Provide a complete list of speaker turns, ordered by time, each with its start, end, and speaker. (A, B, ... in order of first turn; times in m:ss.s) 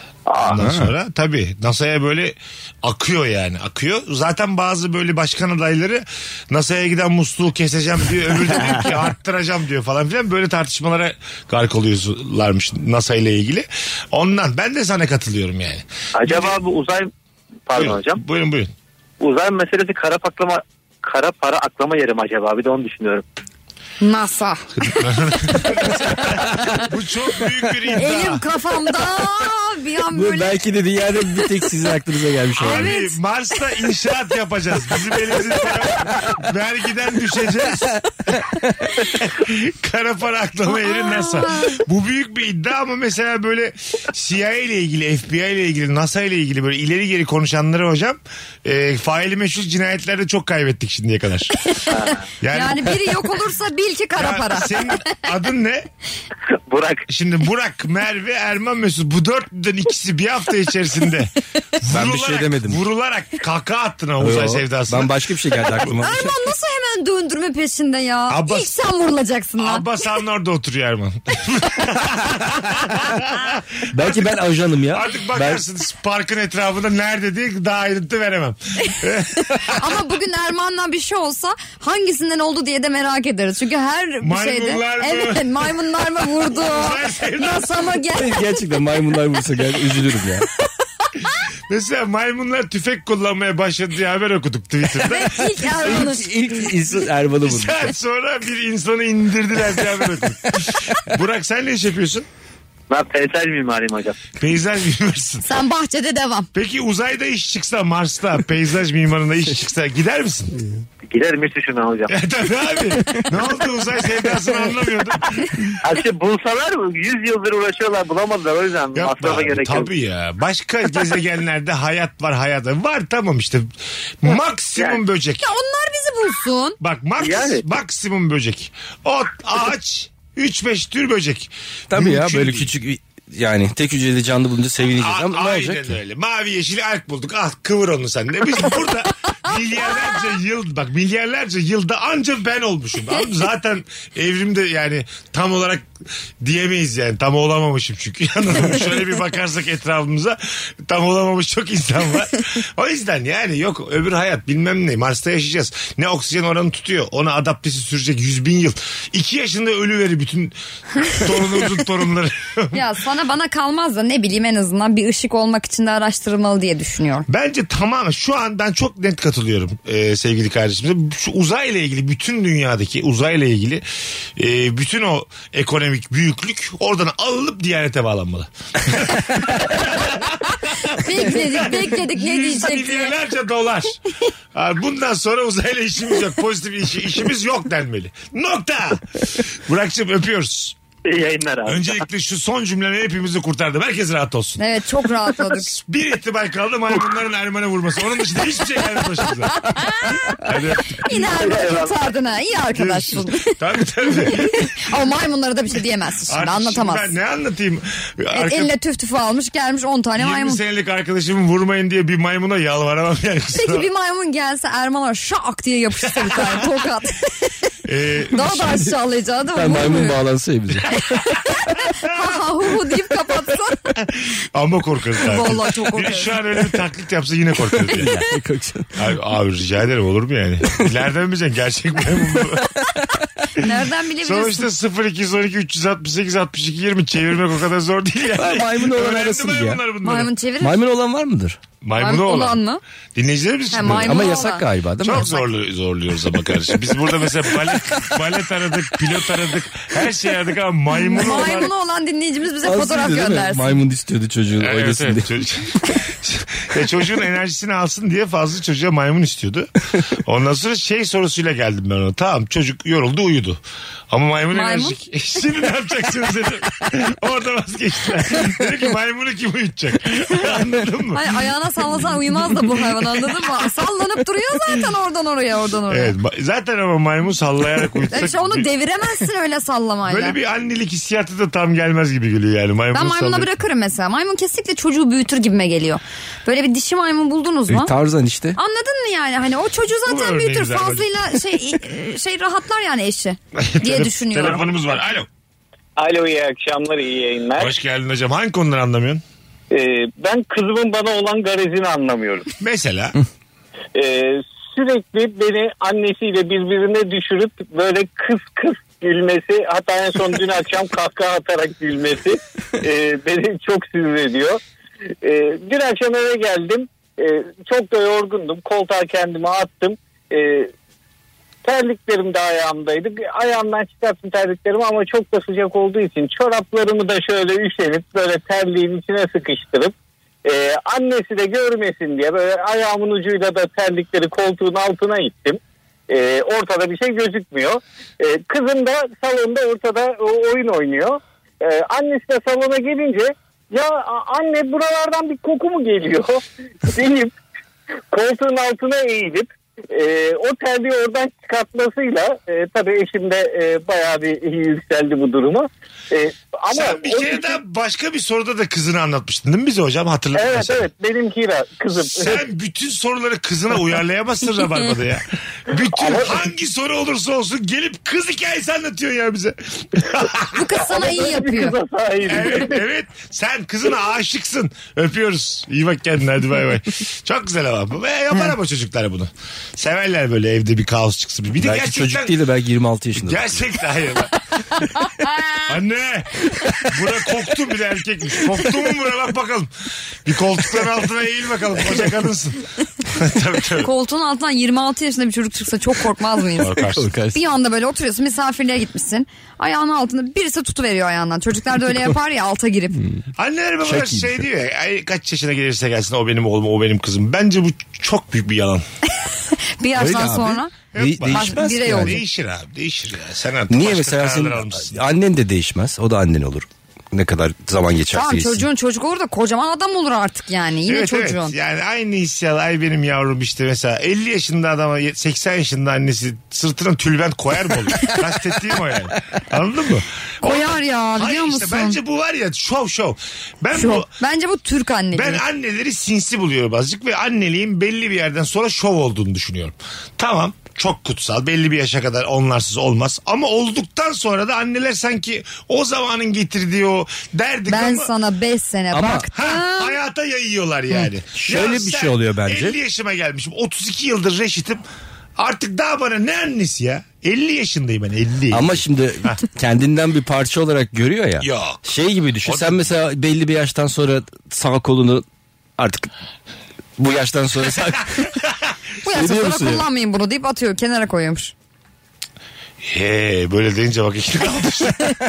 0:00.3-0:00.6 A
0:00.4-0:16.6 B
0:00.5-0:00.9 C
0:16.2-0:17.1 A
0:17.7-0:18.2 A
0:17.8-0:18.7 B
0:19.2-0:23.2 A
0:24.0-0:26.8 D
0:24.8-0:28.4 B
0:28.0-0:30.6 D
0:30.1-0:32.9 C
0:32.6-0:38.0 B
0:32.6-0:33.2 D
0:39.1-0:51.7 B
0:40.7-0:41.8 D
0:51.9-0:52.3 A
0:52.4-0:53.2 B
0:52.5-0:55.0 D
0:54.2-0:55.9 B
0:56.7-0:57.0 A
0:57.1-1:05.2 B
1:01.9-1:02.8 C
1:04.2-1:06.4 C
1:05.8-1:09.9 D
1:08.3-1:08.7 B
1:09.6-1:14.4 B
1:13.9-1:15.6 C
1:14.9-1:19.8 B
1:19.6-1:28.6 D
1:24.2-1:25.5 B
1:26.5-1:27.8 B
1:28.2-1:30.5 C
1:31.7-1:36.0 B
1:35.0-1:36.3 D
1:35.7-1:38.0 C
1:37.4-1:42.3 B
1:42.9-1:44.2 A
1:44.4-1:45.5 B
1:45.4-1:46.5 D
1:46.5-1:50.6 B
1:51.1-1:52.1 A
1:52.1-1:55.7 B
1:55.8-1:59.9 A
1:59.0-2:03.7 B
2:04.2-2:05.5 B
2:04.8-2:05.0 A
2:05.4-2:06.8 D
2:06.8-2:12.7 B
2:07.2-2:07.6 A
2:11.9-2:16.0 C
2:14.9-2:25.9 B
2:26.4-2:42.8 B
2:42.7-2:47.3 D
2:47.3-2:53.8 B
2:54.4-3:04.0 B
3:01.0-3:03.2 D
3:04.5-3:10.8 B
3:11.0-3:12.0 A
3:11.7-3:14.6 B
3:14.6-3:15.7 D
3:15.5-3:21.3 B
3:19.8-3:20.4 D
3:21.0-3:23.6 D
3:21.4-3:21.9 A
3:22.7-3:24.8 B
3:24.2-3:27.1 D
3:26.3-3:28.7 B
3:28.3-3:30.6 D
3:30.2-3:33.9 B
3:33.6-3:37.5 D
3:37.8-3:38.8 B
3:38.3-3:40.2 D
3:39.5-3:40.9 C
3:40.9-3:44.0 D
3:44.0-3:48.1 B
3:45.2-3:46.4 D
3:47.9-3:49.1 C
3:49.0-3:52.8 B
3:53.6-3:54.7 D
3:54.2-4:00.3 B
3:58.4-3:59.8 C
4:00.0-4:00.8 D
4:00.6-4:01.6 C
4:01.8-4:02.6 B
4:02.0-4:02.8 D
4:03.2-4:04.4 B
4:03.7-4:04.6 D
4:03.8-4:05.4 C
4:05.0-4:11.7 B
4:11.0-4:13.8 D
4:12.6-4:15.4 C
4:14.6-4:19.7 B
4:20.2-4:31.3 B
4:24.5-4:25.0 D
4:31.1-4:36.1 D
4:35.9-4:38.7 B
4:38.1-4:40.4 D
4:40.1-4:43.5 B
4:42.9-4:47.9 D
4:47.7-4:48.6 C
4:48.6-4:54.7 D
4:50.1-4:51.4 B
4:53.6-4:55.3 B
4:56.0-4:57.7 E
4:57.6-4:59.2 B
4:59.7-5:02.4 E
5:01.9-5:02.4 A
5:02.6-5:03.2 B
5:04.0-5:14.6 E
5:15.2-5:20.7 E
5:21.6-5:47.3 E
5:48.1-5:57.5 E
5:56.7-6:00.9 B
6:00.4-6:02.4 E
6:02.0-6:10.6 B
6:06.0-6:06.3 E
6:10.5-6:11.8 D
6:10.8-6:12.7 E
6:12.3-6:22.4 B
6:21.6-6:23.7 C
6:23.2-6:24.8 B
6:25.7-6:29.7 B
6:30.2-6:33.9 B
6:33.8-6:36.8 D
6:36.6-6:37.1 B
6:36.8-6:37.4 C
6:37.3-6:43.0 D
6:43.4-6:48.8 B
6:43.8-6:44.4 C
6:49.5-6:50.8 D
6:50.0-6:52.2 C
6:50.9-6:55.0 B
6:51.3-6:52.2 D
6:53.7-6:58.7 C
6:58.1-7:01.5 D
7:00.9-7:14.1 B
7:10.4-7:12.0 D
7:13.7-7:15.4 D
7:15.1-7:28.1 B
7:27.7-7:30.0 D
7:28.9-7:29.3 C
7:29.3-7:34.8 B
7:31.3-7:32.8 C
7:35.4-7:38.8 B
7:38.5-7:45.2 C
7:41.4-7:41.8 B
7:42.4-7:42.9 B
7:45.8-7:46.1 C
7:47.0-7:48.4 C
7:49.0-7:51.5 D
7:49.0-7:49.8 C
7:52.9-7:55.2 B